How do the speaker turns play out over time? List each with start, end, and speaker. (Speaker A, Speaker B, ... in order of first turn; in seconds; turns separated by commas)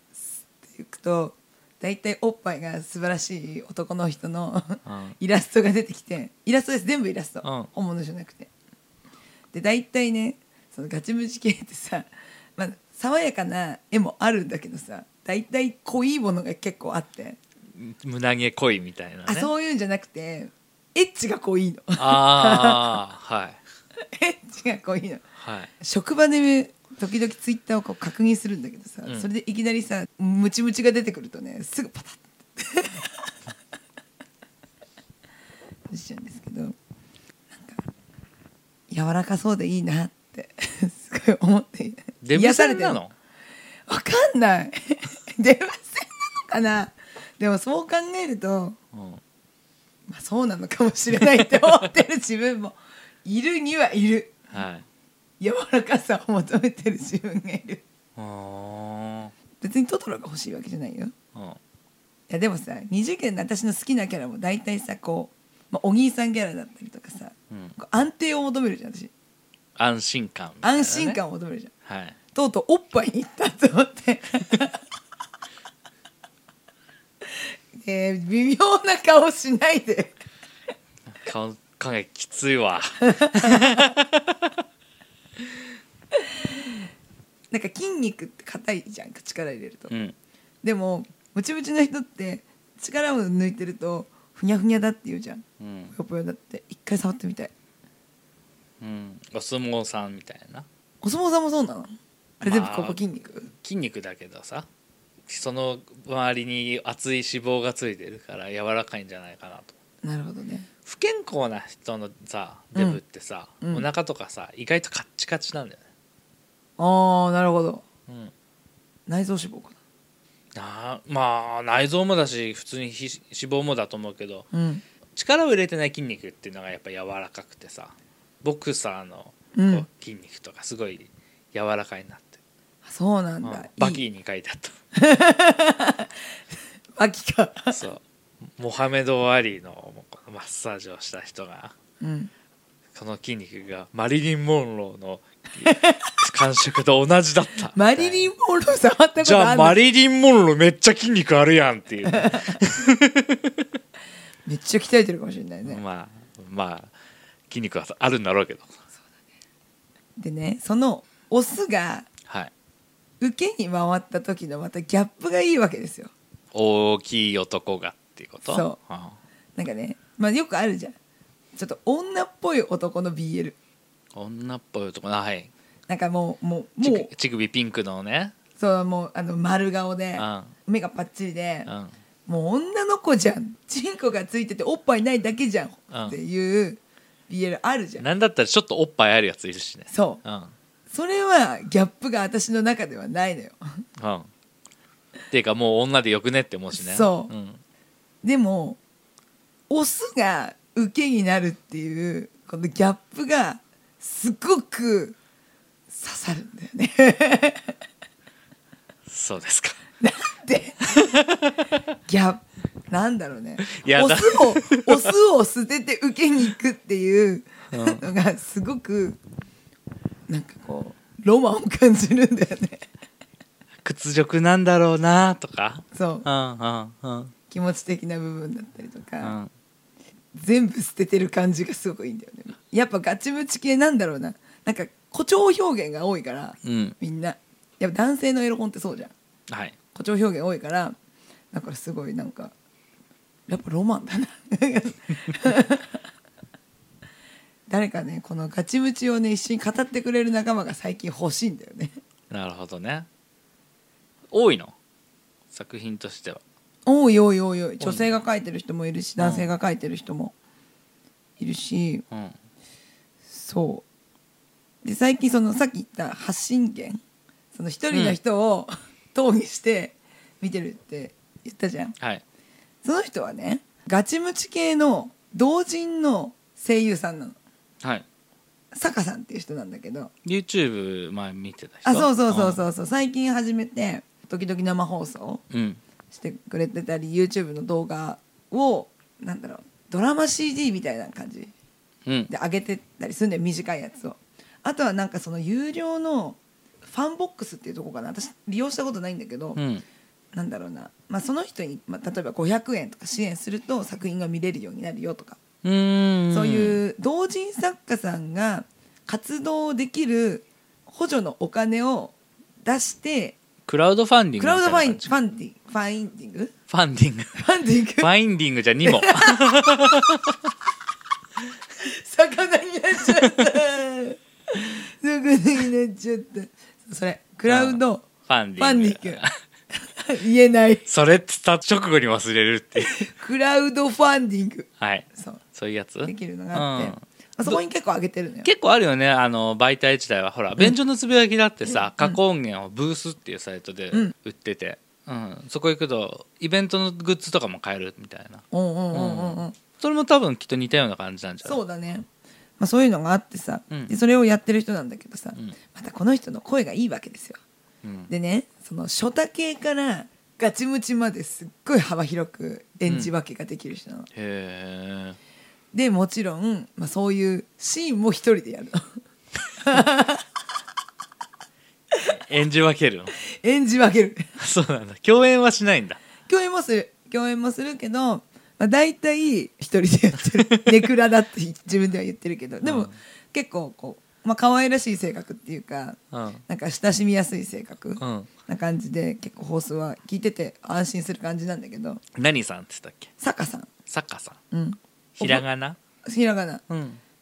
Speaker A: 0.6-8.5, Speaker B: 4.8-5.2, Speaker B: 7.4-7.7, Speaker A: 9.5-17.4, Speaker B: 17.7-19.5, Speaker A: 19.2-23.0, Speaker B: 22.0-23.6, Speaker A: 24.1-25.2, Speaker B: 25.4-25.7, Speaker A: 25.8-33.3, Speaker A: 35.9-36.7, Speaker A: 37.5-37.9, Speaker A: 38.9-43.0, Speaker B: 42.2-43.1, Speaker A: 43.9-48.8, Speaker B: 48.9-49.2, Speaker A: 50.1-54.4, Speaker B: 54.5-54.8, Speaker A: 55.4-57.8, Speaker B: 58.1-59.3, Speaker A: 59.6-61.1, Speaker A: 62.3-69.1, Speaker B: 69.8-71.2, Speaker A: 70.6-71.7, Speaker B: 71.8-72.2, Speaker A: 72.3-74.8, Speaker A: 77.8-80.2, Speaker B: 81.2-84.5, Speaker A: 83.0-83.9, Speaker A: 87.5-89.9, Speaker B: 89.9-90.2, Speaker A: 90.6-97.5, Speaker B: 95.6-95.9, Speaker B: 98.8-100.7, Speaker A: 101.0-103.5, Speaker B: 102.4-103.0, Speaker B: 103.6-104.7, Speaker B: 105.3-109.7, Speaker A: 110.0-110.7, Speaker B: 110.8-115.8, Speaker A: 112.7-113.0, Speaker A: 113.6-113.9, Speaker A: 116.8-117.8, Speaker A: 119.1-119.8, Speaker B: 120.5-124.5, Speaker A: 124.5-124.8, Speaker B: 125.1-132.4, Speaker A: 129.5-129.8, Speaker A: 132.8-134.0, Speaker B: 133.4-134.7, Speaker A: 134.9-136.2, Speaker A: 136.9-137.8, Speaker B: 137.7-138.0, Speaker B: 138.6-141.7, Speaker A: 142.0-142.3, Speaker B: 142.9-148.3, Speaker A: 145.6-146.0, Speaker A: 147.7-149.8, Speaker B: 149.2-153.5, Speaker A: 152.1-152.5, Speaker A: 154.4-155.8, Speaker B: 155.7-156.9, Speaker B: 157.5-158.7, Speaker A: 160.2-162.1, Speaker A: 163.2-166.1, Speaker B: 166.5-169.2, Speaker A: 168.4-168.8, Speaker A: 169.6-170.9, Speaker A: 171.5-173.6, Speaker B: 174.1-175.5, Speaker A: 175.9-177.1, Speaker B: 176.8-178.3, Speaker A: 178.6-181.7, Speaker B: 180.2-180.5, Speaker B: 181.7-181.9, Speaker A: 182.2-188.0, Speaker B: 185.9-186.2, Speaker B: 188.0-190.5, Speaker A: 189.9-190.2, Speaker A: 190.9-193.8, Speaker B: 194.0-194.3, Speaker B: 195.3-197.6, Speaker A: 196.7-197.3, Speaker A: 198.2-198.8, Speaker A: 199.7-205.2, Speaker A: 205.9-207.7, Speaker B: 209.1-209.8, Speaker A: 210.0-210.9, Speaker B: 211.0-211.7, Speaker A: 212.1-219.2, Speaker B: 213.8-215.0, Speaker B: 217.7-218.0, Speaker A: 220.3-222.8, Speaker B: 223.8-227.3, Speaker A: 225.9-226.3, Speaker A: 227.5-229.3, Speaker B: 229.2-229.5, Speaker A: 230.3-239.1, Speaker B: 236.6-236.9, Speaker B: 239.5-239.8, Speaker A: 239.9-240.9, Speaker A: 241.5-242.5, Speaker A: 243.5-246.0, Speaker A: 247.7-251.9, Speaker B: 252.3-253.1, Speaker B: 254.3-254.7, Speaker B: 255.5-256.4, Speaker A: 256.9-260.3, Speaker B: 257.8-258.1, Speaker B: 259.2-259.5, Speaker A: 261.4-262.0, Speaker B: 262.1-262.4, Speaker A: 263.3-263.8, Speaker A: 264.8-267.0, Speaker A: 267.5-271.9, Speaker B: 267.9-268.2, Speaker A: 272.8-277.4, Speaker A: 278.7-280.1, Speaker B: 280.2-282.6, Speaker A: 281.8-285.4, Speaker B: 285.5-285.8, Speaker A: 286.1-291.5, Speaker A: 292.3-299.6, Speaker B: 299.6-299.8, Speaker A: 300.3-305.4, Speaker B: 305.6-306.8, Speaker A: 306.3-313.4, Speaker B: 313.7-315.1, Speaker A: 314.4-316.5, Speaker B: 316.7-317.4, Speaker A: 317.4-318.1, Speaker B: 318.0-320.4, Speaker A: 318.8-319.4, Speaker A: 321.8-328.1, Speaker B: 327.5-329.3, Speaker A: 328.6-329.2, Speaker A: 329.7-330.9, Speaker B: 330.9-333.0, Speaker A: 332.8-335.4, Speaker B: 334.8-337.6, Speaker A: 336.0-338.5, Speaker B: 338.4-351.6, Speaker A: 341.7-342.2, Speaker A: 348.5-349.5, Speaker A: 351.4-352.1, Speaker A: 352.6-357.4, Speaker B: 357.8-358.1, Speaker A: 358.1-364.1, Speaker B: 362.9-363.1, Speaker B: 364.1-365.2, Speaker A: 365.7-368.8, Speaker A: 369.6-370.2, Speaker B: 372.1-373.1, Speaker A: 373.3-374.2, Speaker B: 374.4-376.0, Speaker A: 376.2-392.0, Speaker B: 382.6-383.0, Speaker B: 386.1-386.4, Speaker B: 388.0-388.3, Speaker B: 392.1-393.1, Speaker A: 393.2-393.7, Speaker B: 393.9-394.4, Speaker A: 394.5-395.4, Speaker B: 395.2-395.8, Speaker A: 396.0-396.6, Speaker B: 396.7-397.0